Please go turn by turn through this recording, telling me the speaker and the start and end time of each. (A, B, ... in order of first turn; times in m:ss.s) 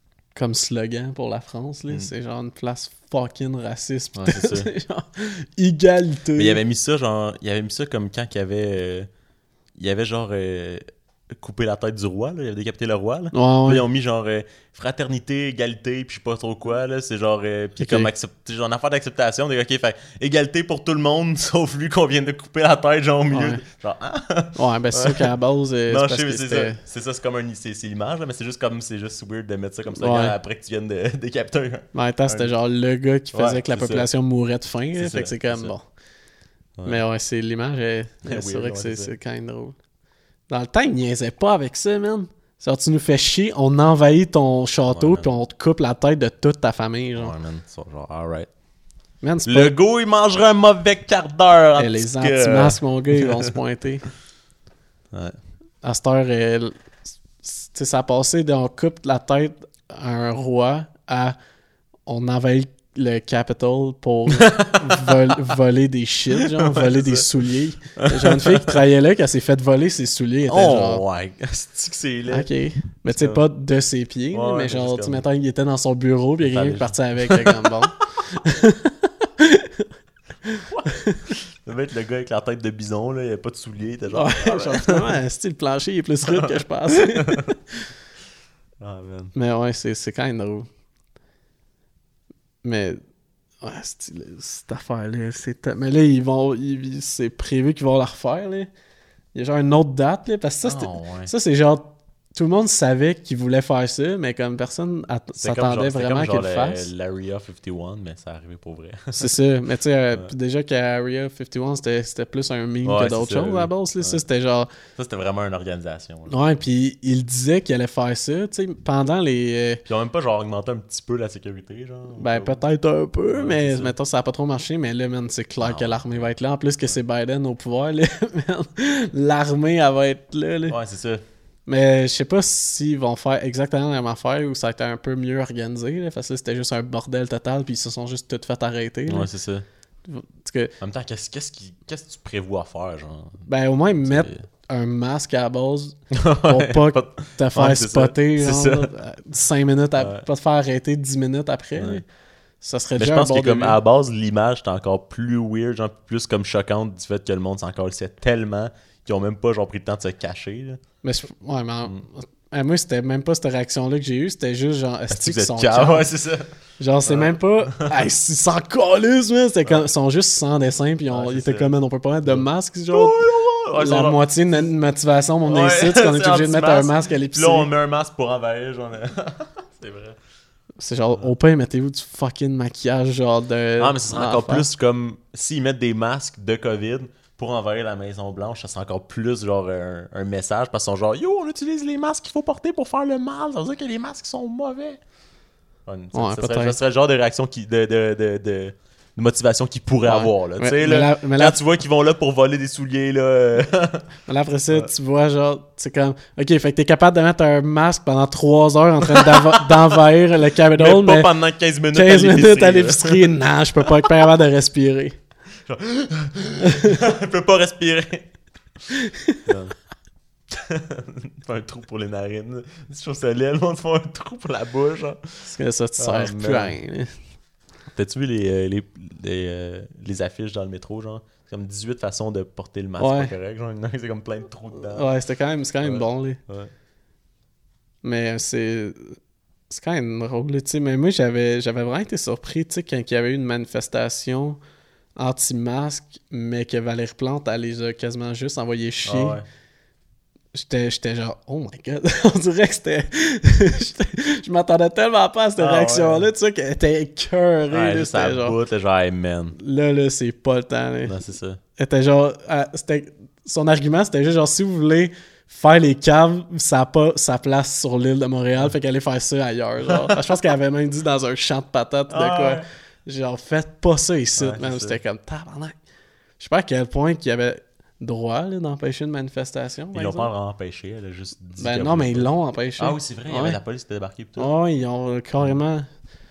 0:00.3-0:06.6 A
0:04.1-0:04.7 B
0:06.4-0:09.1 B
0:09.8-0:25.3 B
0:13.3-0:13.8 A
0:17.8-0:18.1 A
0:23.3-0:23.6 A
0:24.5-0:26.8 A
0:25.9-0:32.5 B
0:29.9-0:30.4 A
0:31.9-0:35.8 A
0:33.3-0:34.1 B
0:34.9-0:35.7 B
0:36.8-0:39.8 A
0:38.2-0:39.1 B
0:40.5-0:47.3 A
0:44.9-0:45.3 B
0:47.2-0:48.5 B
0:49.2-0:49.7 A
0:49.4-0:53.5 B
0:51.8-0:54.0 A
0:55.1-0:55.4 B
0:55.8-0:56.8 A
0:57.4-1:01.4 A
1:02.0-1:11.0 A
1:04.4-1:05.3 B
1:06.4-1:07.3 B
1:08.0-1:08.7 B
1:10.4-1:12.5 B
1:12.3-1:19.9 A
1:13.1-1:13.4 B
1:14.3-1:15.2 B
1:16.4-1:17.9 B
1:20.4-1:21.2 A
1:20.6-1:25.1 B
1:24.1-1:27.6 A
1:26.3-1:27.5 B
1:28.8-1:29.3 B
1:29.3-1:30.7 A
1:32.6-1:33.0 A
1:33.6-1:38.7 A
1:39.3-1:46.9 A
1:40.6-1:41.3 B
1:45.4-1:49.3 B
1:49.2-1:54.7 A
1:52.8-1:54.2 B
1:55.0-1:56.4 B
1:56.3-1:59.8 A
1:59.8-2:02.6 B
2:02.2-2:10.8 A
2:03.3-2:03.9 B
2:05.6-2:06.3 B
2:10.7-2:11.2 B
2:11.6-2:19.3 A
2:19.0-2:19.6 B
2:20.0-2:20.7 A
2:20.8-2:23.5 B
2:23.5-2:32.0 A
2:24.0-2:24.5 B
2:26.1-2:28.9 B
2:30.0-2:30.2 B
2:31.8-2:32.0 B
2:32.6-2:33.8 A
2:33.0-2:40.8 B
2:41.0-2:46.1 A
2:45.1-2:46.5 B
2:46.8-2:53.2 A
2:47.0-2:48.0 B
2:51.1-2:51.7 B
2:52.2-2:54.2 B
2:53.8-2:57.7 A
2:55.4-3:00.2 B
3:00.8-3:04.7 A
3:03.8-3:15.0 B
3:15.8-3:24.1 B
3:16.1-3:16.8 A
3:20.0-3:21.6 A
3:24.3-3:31.3 A
3:29.1-3:29.7 B
3:30.7-3:33.3 B
3:31.9-3:35.2 A
3:35.6-3:38.3 B
3:36.6-3:37.0 A
3:38.9-3:39.4 A
3:39.4-3:39.7 B
3:40.5-3:45.5 B
3:45.4-3:47.1 A
3:46.0-3:46.8 B
3:47.9-3:55.1 B
3:53.0-3:53.3 A
3:54.8-3:56.4 A
3:55.8-3:56.7 B
3:58.0-3:59.2 A
3:59.7-4:04.6 A
4:05.2-4:09.4 A
4:09.0-4:09.4 B
4:10.5-4:18.6 A
4:15.6-4:16.3 B
4:17.7-4:19.6 B
4:19.6-4:21.2 A
4:21.0-4:21.6 B
4:21.8-4:35.8 A
4:29.9-4:30.2 B
4:32.1-4:32.6 B
4:34.4-4:35.0 B
4:36.4-4:40.3 A
4:39.9-4:44.5 B
4:41.6-4:43.6 A
4:44.4-4:45.9 A